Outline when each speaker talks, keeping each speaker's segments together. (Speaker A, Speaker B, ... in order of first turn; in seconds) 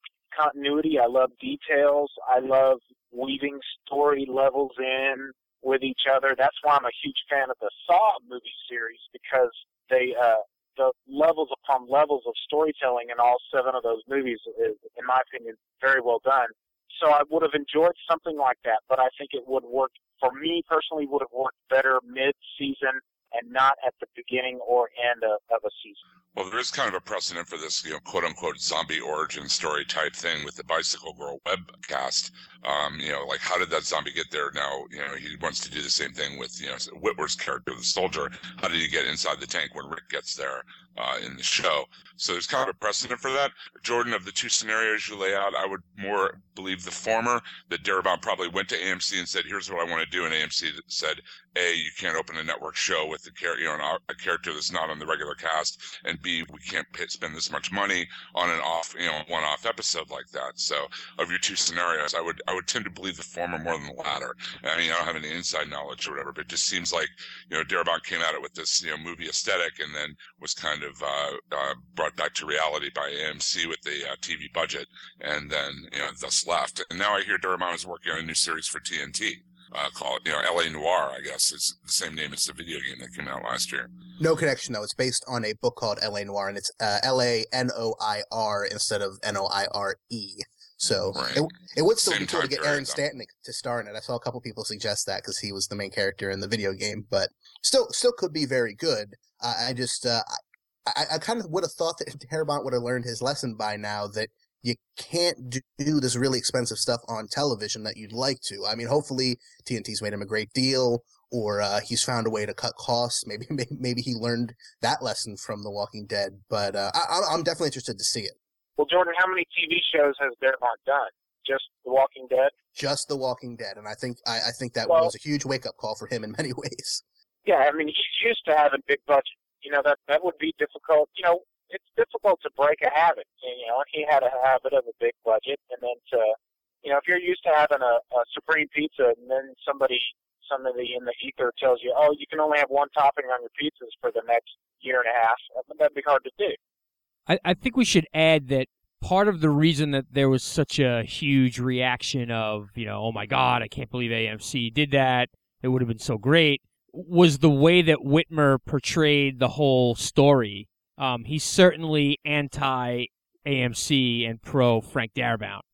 Speaker A: 0.3-26.0, 118.8-122.5, 127.5-146.6
Speaker B: 26.4-83.9, 91.1-93.0
Speaker C: 84.2-100.3, 100.9-118.4, 122.8-127.0
Speaker D: 147.3-165.6